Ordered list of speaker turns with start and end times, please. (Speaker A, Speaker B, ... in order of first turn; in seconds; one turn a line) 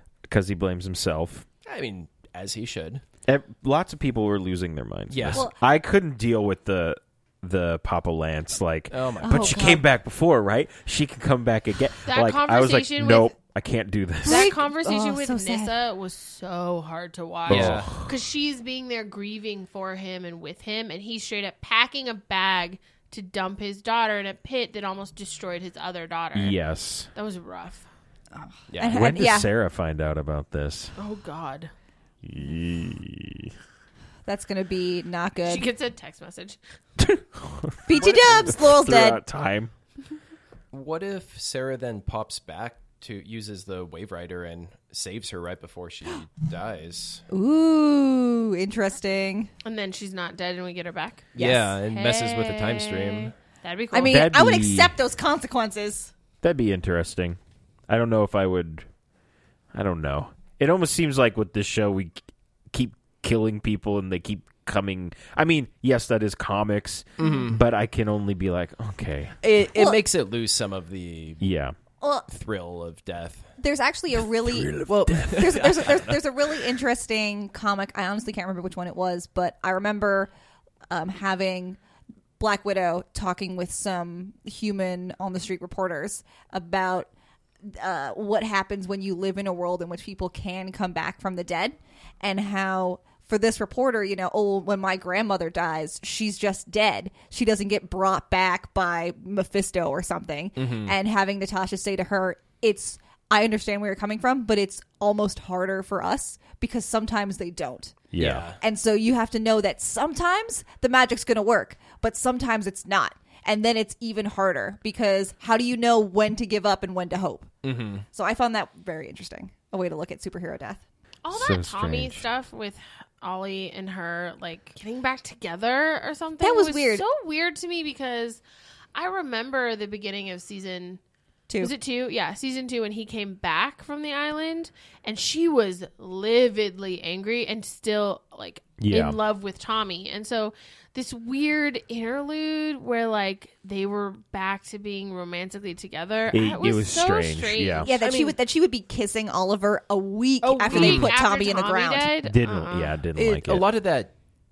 Speaker A: 0.3-1.5
Speaker B: 1.7-3.0
Speaker A: 3.3-14.5
Speaker B: 5.1-5.5
Speaker B: 8.9-9.8
Speaker C: 9.2-9.8
Speaker D: 12.1-13.3
Speaker C: 14.3-15.7
Speaker D: 14.3-26.6
Speaker A: 17.5-18.1
Speaker B: 17.5-17.9
Speaker A: 26.4-27.1
Speaker D: 27.1-27.9
Speaker C: 28.4-29.5
Speaker B: 28.7-29.0
Speaker A: 28.9-30.9
Speaker D: 31.0-31.7
Speaker A: 32.2-33.5
Speaker C: 34.3-35.7
Speaker D: 35.4-36.6
Speaker A: 37.0-39.7
Speaker C: 37.9-39.2
Speaker B: 40.7-47.2
Speaker C: 47.3-49.5
Speaker D: 49.6-54.3
Speaker B: 51.4-53.3
Speaker C: 51.4-51.7
Speaker C: 53.9-56.1
Speaker A: 54.0-54.9
Speaker A: 56.4-58.9
Speaker A: 59.7-62.2
Speaker A: 62.7-69.4
Speaker B: 67.2-67.6
Speaker C: 67.2-67.5
Speaker B: 69.4-71.5
Speaker C: 69.8-70.0
Speaker A: 71.4-71.8
Speaker C: 72.0-72.3
Speaker B: 72.3-73.5
Speaker C: 73.6-80.3
Speaker A: 74.4-75.5
Speaker B: 74.9-76.2
Speaker C: 80.9-81.8
Speaker C: 82.4-87.1
Speaker C: 87.6-108.0
Speaker B: 100.6-101.0
Speaker A: 108.1-108.5
Speaker B: 108.2-108.6
Speaker C: 108.6-117.5
Speaker B: 117.6-118.0
Speaker C: 118.1-120.8
Speaker D: 121.2-128.4
Speaker A: 121.3-122.2
Speaker C: 126.4-127.0
Speaker D: 128.9-131.0
Speaker C: 131.5-131.7
Speaker D: 131.6-147.9
Speaker A: 138.8-139.2
Speaker A: 146.3-147.9
Speaker C: 147.8-152.1
Speaker B: 148.0-148.4
Speaker D: 150.4-153.0
Speaker B: 150.7-151.1
Speaker A: 152.2-153.7
Speaker B: 153.2-154.1